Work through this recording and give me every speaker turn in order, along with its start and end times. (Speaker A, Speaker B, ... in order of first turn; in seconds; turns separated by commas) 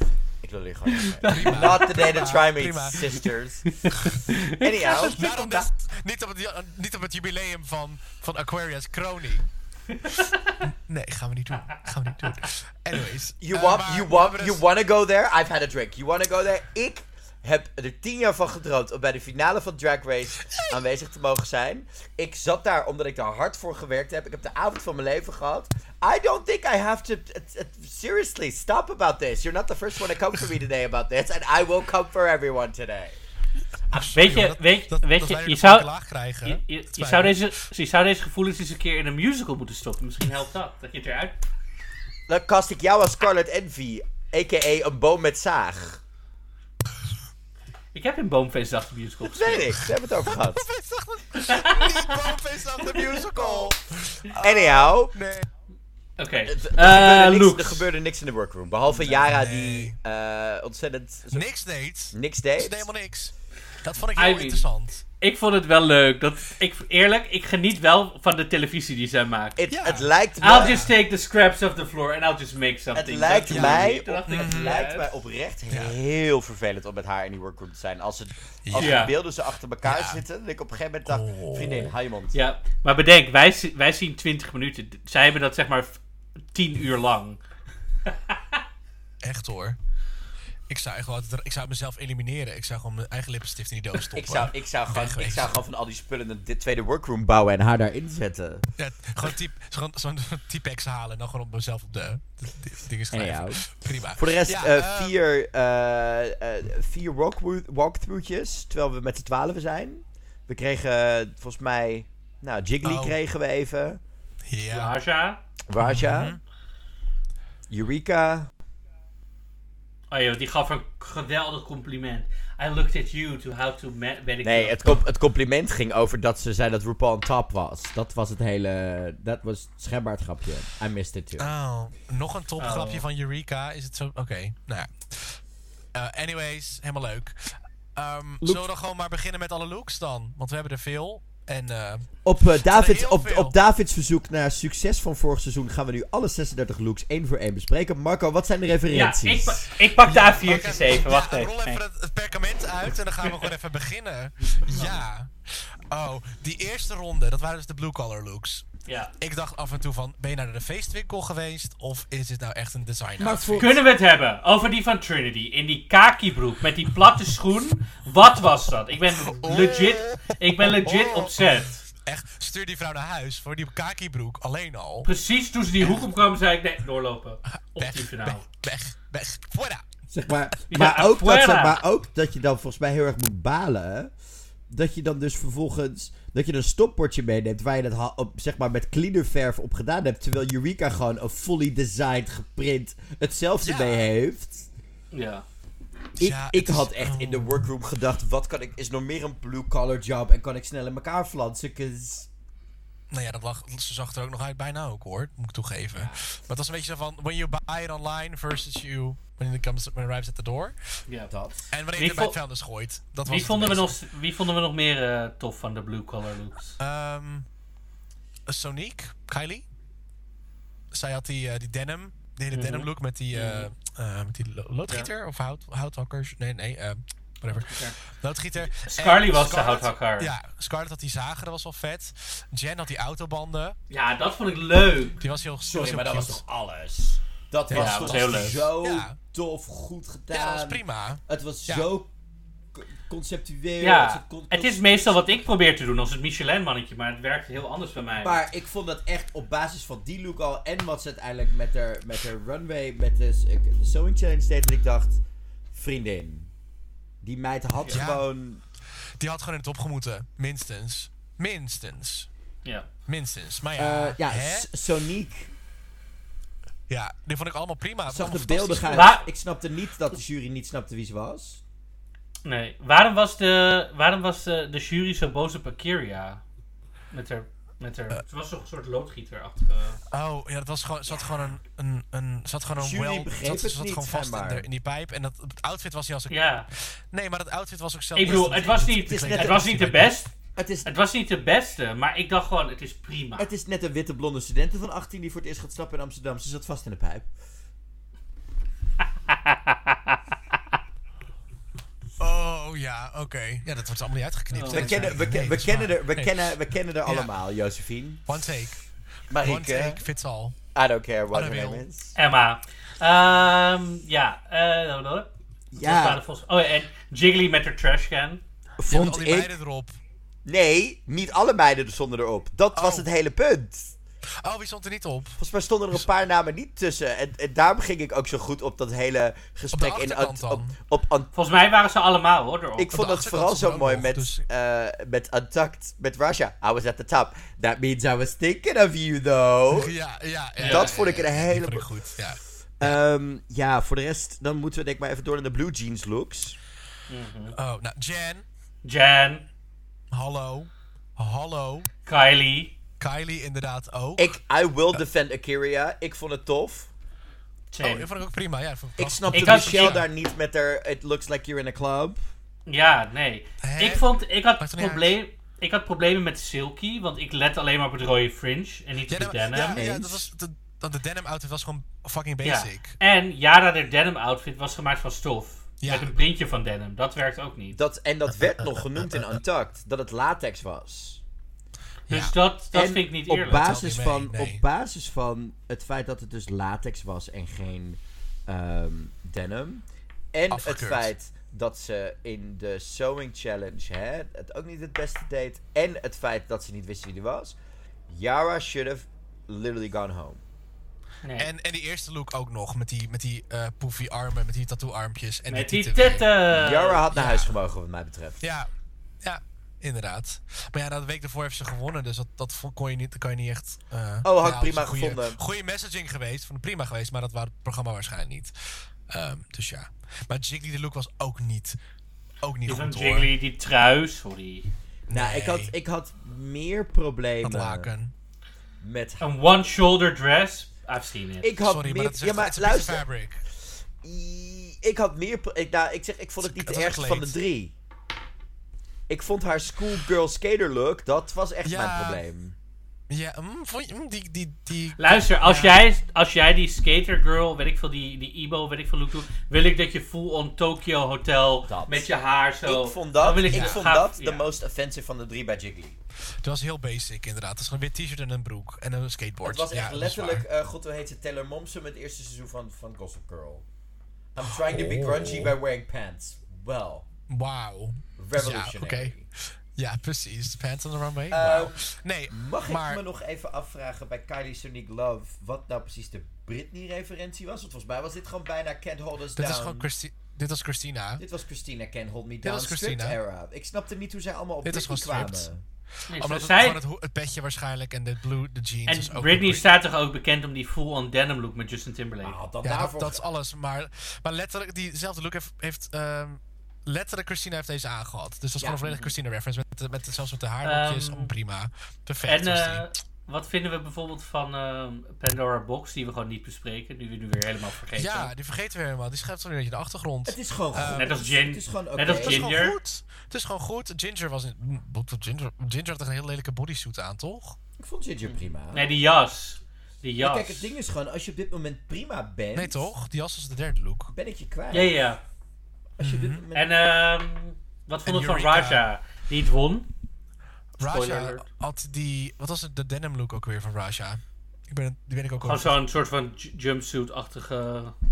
Speaker A: 0.4-5.6, Speaker B: 0.9-1.9, Speaker C: 1.2-3.2, Speaker B: 3.9-5.2, Speaker C: 4.8-9.5, Speaker B: 10.1-10.5, Speaker C: 10.6-14.6, Speaker A: 13.4-33.2, Speaker C: 20.5-20.8, Speaker C: 33.9-37.5, Speaker B: 34.1-35.9, Speaker B: 36.4-41.4, Speaker A: 42.3-46.0, Speaker B: 47.9-49.7, Speaker A: 49.2-50.6, Speaker C: 50.2-55.5, Speaker B: 51.5-52.3, Speaker B: 52.9-53.2, Speaker A: 54.4-55.1, Speaker B: 56.2-57.9, Speaker A: 56.5-61.5, Speaker C: 59.2-59.9, Speaker C: 61.3-65.0, Speaker A: 62.1-62.9, Speaker B: 64.2-64.7, Speaker B: 65.2-69.6, Speaker A: 69.6-70.8, Speaker C: 69.7-70.9, Speaker B: 70.4-75.1, Speaker A: 72.9-82.4, Speaker C: 73.5-74.8, Speaker C: 75.7-76.0, Speaker C: 78.6-79.1, Speaker B: 78.8-79.1, Speaker C: 79.8-80.2, Speaker C: 81.0-81.9, Speaker B: 82.3-86.0, Speaker B: 86.5-87.4, Speaker C: 89.2-89.8, Speaker C: 90.7-95.5, Speaker A: 94.1-98.7, Speaker C: 98.8-105.2, Speaker A: 103.1-114.0, Speaker C: 112.8-113.2, Speaker C: 114.5-114.9, Speaker B: 114.7-115.4, Speaker A: 115.7-116.4, Speaker C: 115.8-116.4, Speaker A: 117.7-118.5, Speaker B: 120.1-124.9, Speaker A: 124.4-131.5, Speaker C: 131.4-135.4, Speaker B: 132.6-133.0, Speaker C: 135.9-143.5, Speaker A: 138.4-138.7, Speaker A: 142.2-149.6, Speaker B: 148.9-151.8, Speaker C: 150.0-158.7, Speaker B: 154.5-155.0, Speaker B: 158.8-159.1, Speaker C: 159.2-163.7, Speaker A: 163.2-163.8, Speaker B: 163.6-171.8, Speaker C: 169.2-175.1, Speaker B: 175.0-178.4, Speaker C: 177.5-179.8, Speaker A: 180.1-184.1, Speaker B: 180.7-181.8, Speaker A: 184.7-194.7, Speaker C: 193.6-194.1, Speaker B: 195.1-195.4, Speaker A: 196.2-202.3, Speaker C: 196.2-197.6, Speaker C: 203.1-210.8, Speaker A: 205.9-206.2, Speaker A: 211.3-211.7, Speaker C: 211.7-213.9, Speaker B: 211.9-212.4, Speaker B: 213.2-216.8, Speaker C: 216.8-217.4, Speaker C: 218.5-219.6, Speaker C: 220.9-233.8, Speaker B: 222.5-223.7, Speaker B: 227.6-228.0, Speaker B: 228.7-230.3, Speaker B: 233.9-235.2, Speaker C: 235.2-236.4, Speaker A: 235.7-242.1, Speaker C: 237.7-239.2, Speaker B: 237.7-238.7, Speaker C: 240.3-241.9, Speaker A: 242.7-245.3, Speaker B: 243.8-248.4, Speaker A: 248.2-255.2, Speaker A: 255.7-256.5, Speaker A: 257.2-258.6, Speaker C: 257.9-258.2, Speaker C: 259.2-262.3, Speaker C: 263.1-264.7, Speaker A: 263.8-265.5, Speaker C: 266.9-269.1, Speaker A: 268.1-271.6, Speaker B: 268.9-269.3, Speaker B: 272.4-276.4, Speaker B: 277.1-280.0, Speaker C: 280.1-290.2, Speaker A: 282.8-284.7, Speaker B: 286.3-286.7, Speaker B: 288.1-290.3, Speaker A: 289.0-289.6, Speaker A: 290.5-290.9, Speaker B: 290.8-293.5, Speaker A: 293.4-297.3, Speaker B: 299.3-300.2, Speaker C: 302.2-307.3, Speaker B: 304.5-305.1, Speaker A: 304.7-308.3, Speaker C: 308.3-308.8, Speaker A: 309.3-310.0, Speaker C: 309.3-310.6, Speaker A: 310.7-312.1, Speaker C: 311.3-311.8, Speaker B: 312.1-315.3, Speaker A: 315.7-316.2, Speaker B: 315.8-318.4, Speaker A: 318.8-319.5, Speaker C: 318.9-320.0, Speaker A: 320.4-323.9, Speaker C: 322.7-323.1, Speaker C: 324.4-325.4, Speaker A: 325.4-331.3, Speaker C: 329.7-330.8, Speaker B: 331.3-332.9, Speaker A: 332.8-339.9, Speaker C: 332.9-334.4, Speaker C: 339.7-343.0, Speaker B: 340.6-340.9, Speaker A: 340.6-341.9, Speaker A: 342.8-346.6, Speaker B: 347.1-347.6, Speaker C: 347.5-348.4, Speaker B: 348.8-349.4, Speaker C: 350.1-351.9, Speaker B: 352.1-352.8, Speaker C: 353.0-354.4, Speaker A: 354.2-356.9, Speaker B: 357.7-358.1, Speaker C: 357.8-360.1, Speaker A: 359.0-362.2, Speaker B: 359.3-360.0, Speaker B: 362.6-369.8, Speaker C: 363.6-364.1, Speaker C: 364.6-365.2, Speaker C: 369.1-372.9, Speaker A: 369.7-370.3, Speaker B: 372.4-377.8, Speaker C: 375.8-376.1, Speaker A: 377.7-381.2, Speaker C: 382.1-382.3, Speaker B: 382.1-383.7, Speaker A: 382.7-397.6, Speaker C: 383.5-384.6, Speaker C: 390.5-391.1, Speaker A: 398.1-400.4, Speaker B: 401.2-401.5, Speaker C: 401.4-406.3, Speaker B: 405.5-407.0, Speaker A: 406.5-408.4, Speaker C: 407.1-407.5, Speaker C: 408.4-408.7, Speaker C: 409.2-421.8, Speaker A: 414.2-415.4, Speaker C: 422.4-423.3, Speaker B: 422.7-424.7, Speaker C: 425.1-425.7, Speaker A: 425.1-427.9, Speaker C: 427.4-428.1, Speaker A: 428.8-429.4, Speaker B: 429.2-431.5, Speaker A: 431.4-433.0, Speaker C: 431.6-433.4, Speaker A: 434.0-437.7, Speaker C: 436.4-437.3, Speaker A: 439.1-442.5, Speaker C: 441.6-442.2, Speaker C: 443.1-445.8, Speaker B: 445.0-454.5, Speaker A: 451.6-452.1, Speaker A: 452.6-456.0, Speaker C: 453.4-453.8, Speaker C: 456.4-460.4, Speaker A: 459.4-463.6, Speaker A: 464.3-467.1, Speaker C: 464.4-465.6, Speaker C: 467.3-473.0, Speaker A: 468.2-469.3, Speaker A: 471.3-479.9, Speaker C: 479.4-481.2, Speaker A: 481.2-485.6, Speaker C: 482.4-483.2, Speaker C: 484.6-485.5, Speaker C: 486.0-489.7, Speaker B: 486.1-486.8, Speaker B: 488.9-492.4, Speaker A: 492.2-493.2, Speaker C: 492.6-502.9, Speaker B: 498.9-499.1, Speaker B: 500.6-501.3, Speaker B: 502.2-508.3, Speaker C: 507.9-511.1, Speaker A: 510.2-512.5, Speaker B: 510.9-512.8, Speaker C: 512.1-517.6, Speaker A: 517.8-518.9, Speaker B: 518.7-520.7, Speaker A: 520.2-522.9, Speaker C: 522.5-524.1, Speaker A: 524.1-525.0, Speaker B: 524.7-525.2, Speaker A: 526.0-526.7, Speaker C: 526.0-526.4, Speaker B: 526.5-529.9, Speaker C: 528.0-528.8, Speaker C: 530.8-535.7, Speaker B: 530.8-531.5, Speaker B: 535.4-537.9